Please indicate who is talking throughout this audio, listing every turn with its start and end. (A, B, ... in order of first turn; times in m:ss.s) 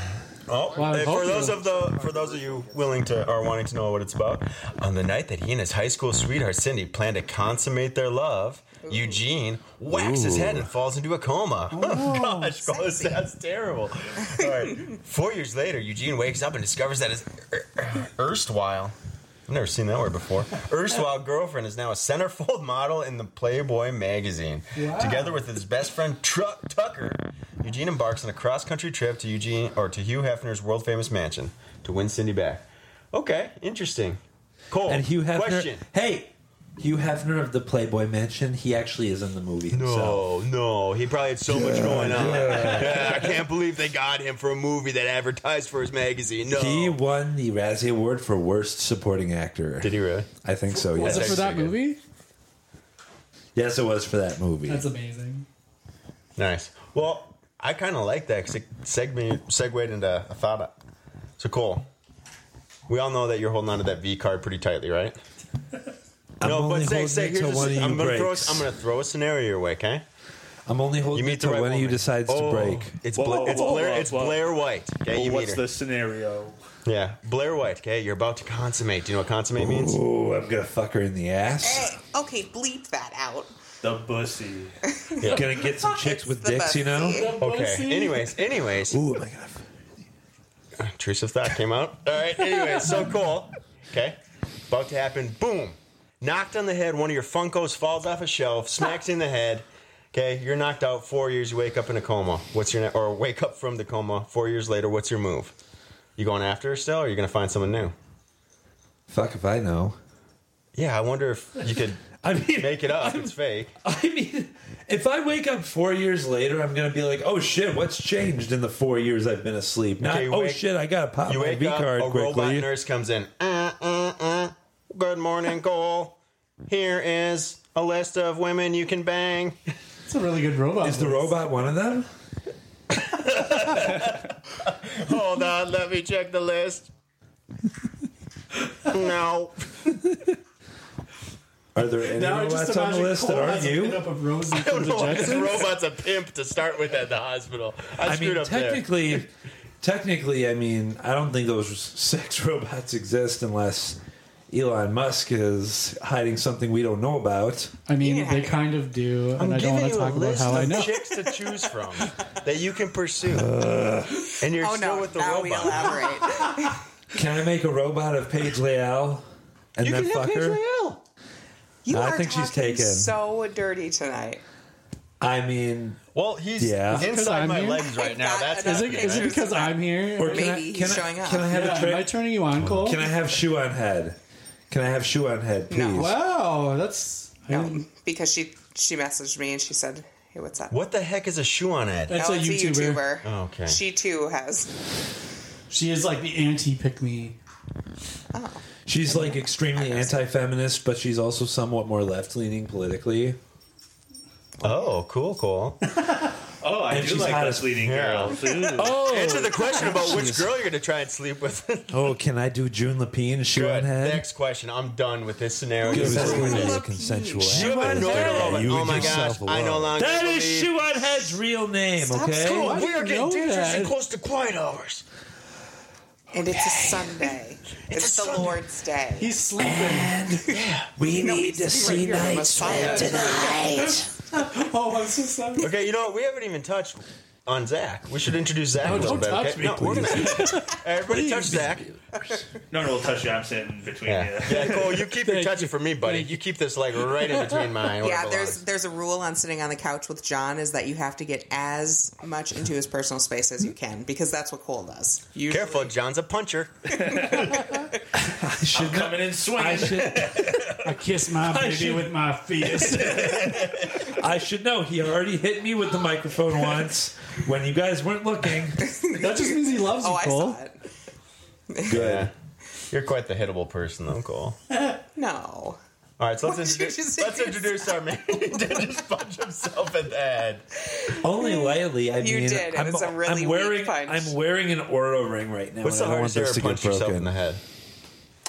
0:00.5-0:18.9 A
0:00.8-0:01.7 B
0:08.8-0:09.1 C
0:09.9-0:10.7 D
0:11.7-0:12.5 B
0:12.5-0:13.2 C
0:19.5-0:35.8 A
0:24.8-0:25.4 B
0:34.9-0:40.3 D
0:39.7-0:47.0 A
0:41.5-0:43.4 D
0:46.5-0:51.7 D
0:49.8-0:50.3 A
0:50.8-0:52.0 B
0:51.0-0:51.8 A
0:53.5-0:54.9 D
0:54.7-0:55.5 B
0:56.4-1:00.8 A
1:01.4-1:01.9 A
1:02.9-1:05.2 A
1:06.4-1:08.7 D
1:06.4-1:10.0 A
1:10.7-1:13.0 D
1:11.1-1:15.6 A
1:13.1-1:14.5 E
1:15.1-1:16.5 E
1:16.9-1:20.0 A
1:19.5-1:21.9 D
1:21.6-1:23.5 C
1:23.8-1:24.8 E
1:25.0-1:27.4 C
1:25.2-1:25.5 A
1:25.2-1:27.3 D
1:27.1-1:28.4 B
1:27.4-1:29.0 A
1:28.9-1:29.7 D
1:30.8-1:34.2 A
1:34.7-1:45.5 A
1:46.2-1:47.9 A
1:49.1-1:50.0 D
1:50.8-1:53.8 A
1:52.2-2:02.7 D
2:00.0-2:00.6 A
2:01.2-2:09.6 A
2:10.0-2:11.4 B
2:10.8-2:12.1 D
2:13.0-2:16.9 A
2:18.8-2:19.9 A
2:21.8-2:24.1 D
2:22.1-2:25.7 B
2:24.5-2:28.8 A
2:28.0-2:37.7 D
2:37.9-2:41.3 B
2:38.0-2:38.6 C
2:39.4-2:43.5 A
2:43.2-2:44.3 D
2:44.4-2:46.2 A
2:44.6-2:46.8 C
2:47.1-2:50.6 D
2:49.8-2:51.0 A
2:51.8-2:54.4 C
2:51.9-2:53.1 D
2:55.2-2:56.0 D
2:56.1-2:59.4 A
2:56.6-2:57.1 D
2:56.9-2:57.9 B
2:57.8-3:01.5 C
2:58.6-3:00.5 B
3:00.2-3:04.2 D
3:01.5-3:03.1 B
3:04.7-3:06.2 D
3:05.7-3:06.1 C
3:06.0-3:07.8 B
3:07.5-3:10.8 C
3:10.7-3:12.2 A
3:12.1-3:13.1 B
3:12.1-3:14.7 C
3:13.2-3:13.8 A
3:15.7-3:17.4 B
3:18.3-3:20.2 C
3:18.8-3:23.4 D
3:24.6-3:25.8 A
3:24.6-3:24.9 C
3:26.6-3:29.1 E
3:26.9-3:27.8 D
3:27.8-3:32.0 A
3:28.8-3:30.6 D
3:31.9-3:34.3 D
3:33.5-3:36.8 A
3:35.8-3:38.8 C
3:35.9-3:42.8 D
3:37.4-3:40.7 A
3:42.0-3:42.7 C
3:42.4-3:45.0 A
3:42.6-3:44.0 B
3:46.3-3:49.4 C
3:46.5-3:47.1 D
3:47.9-3:48.5 A
3:49.2-3:50.2 B
3:49.6-3:54.1 D
3:50.5-3:50.9 A
3:51.1-3:54.0 C
3:54.3-3:55.7 B
3:55.6-4:01.9 A
3:58.8-4:01.5 B
3:58.8-4:00.3 D
4:01.1-4:02.4 D
4:02.7-4:05.0 E
4:04.0-4:08.6 A
4:05.2-4:06.4 B
4:07.2-4:07.7 B
4:08.0-4:15.9 C
4:15.5-4:17.5 A
4:18.2-4:20.7 D
4:18.7-4:20.5 E
4:20.8-4:23.6 B
4:21.4-4:22.1 D
4:22.6-4:28.9 D
4:23.4-4:23.9 A
4:28.8-4:30.8 C
4:29.1-4:30.6 B
4:31.8-4:32.3 D
4:31.9-4:32.3 A
4:32.9-4:34.6 A
4:35.2-4:35.8 C
4:36.2-4:40.7 A
4:36.4-4:38.0 C
4:40.9-4:44.4 C
4:41.2-4:47.3 D
4:45.8-4:47.6 A